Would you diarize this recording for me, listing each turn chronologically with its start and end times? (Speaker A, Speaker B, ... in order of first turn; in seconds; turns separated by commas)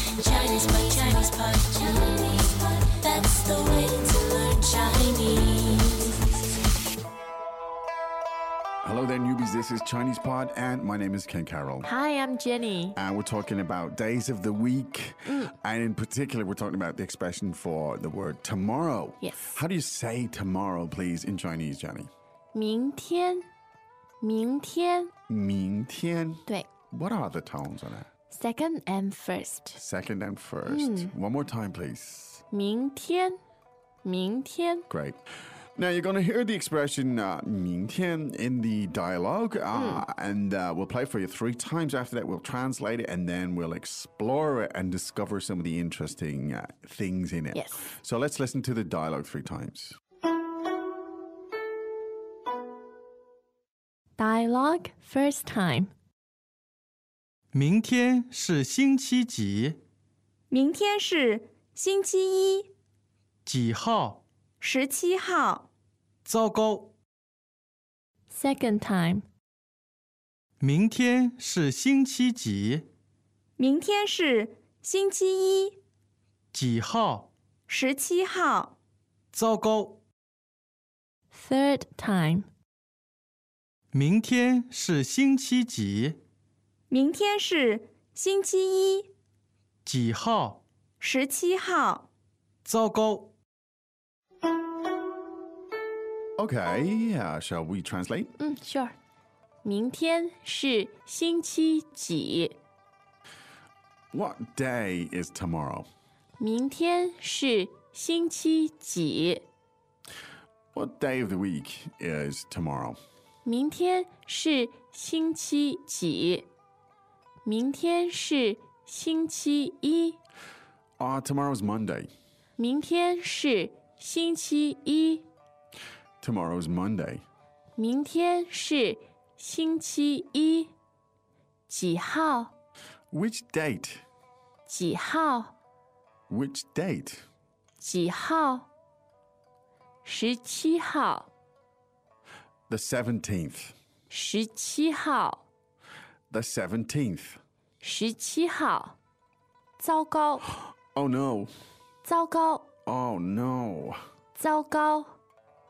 Speaker A: 0.2-6.1, Speaker B: 8.8-11.9, Speaker C: 11.8-13.0, Speaker B: 12.9-22.1, Speaker C: 15.3-15.5, Speaker C: 19.2-19.6, Speaker C: 22.5-23.4, Speaker C: 24.2-25.1, Speaker B: 25.3-28.1, Speaker C: 28.3-29.8, Speaker B: 29.7-32.4, Speaker C: 30.6-31.1, Speaker C: 32.5-33.4, Speaker C: 34.0-34.9, Speaker B: 34.9-35.2, Speaker B: 35.8-50.0, Speaker C: 39.7-40.0, Speaker C: 47.5-47.9, Speaker C: 54.2-55.9, Speaker D: 57.5-59.8, Speaker E: 60.5-62.7, Speaker D: 63.5-64.2, Speaker E: 64.6-65.7, Speaker D: 66.2-66.9, Speaker C: 68.3-69.2, Speaker D: 70.6-72.8, Speaker E: 73.6-75.8, Speaker D: 76.5-77.3, Speaker E: 77.7-78.7, Speaker D: 79.3-80.0, Speaker C: 81.3-82.5, Speaker D: 83.9-86.2, Speaker E: 86.9-89.1, Speaker D: 89.8-90.6, Speaker E: 91.0-92.0, Speaker D: 92.6-93.3, Speaker B: 96.4-98.3, Speaker C: 98.4-98.9, Speaker C: 99.6-102.5, Speaker B: 104.1-105.9, Speaker C: 106.4-109.5, Speaker B: 110.7-113.0, Speaker C: 113.4-116.5, Speaker C: 117.4-120.2, Speaker B: 121.0-122.1, Speaker C: 122.6-125.2, Speaker B: 126.2-127.2, Speaker C: 127.8-130.7, Speaker C: 131.7-132.5, Speaker B: 133.1-134.0, Speaker C: 134.7-135.5, Speaker B: 136.3-137.2, Speaker C: 137.8-138.7, Speaker C: 140.0-141.3, Speaker B: 142.7-143.7, Speaker C: 144.1-145.4, Speaker B: 146.3-147.4, Speaker C: 147.8-148.9, Speaker C: 149.8-150.5, Speaker B: 150.9-151.5, Speaker C: 152.0-152.7, Speaker B: 152.8-154.0, Speaker C: 154.3-155.1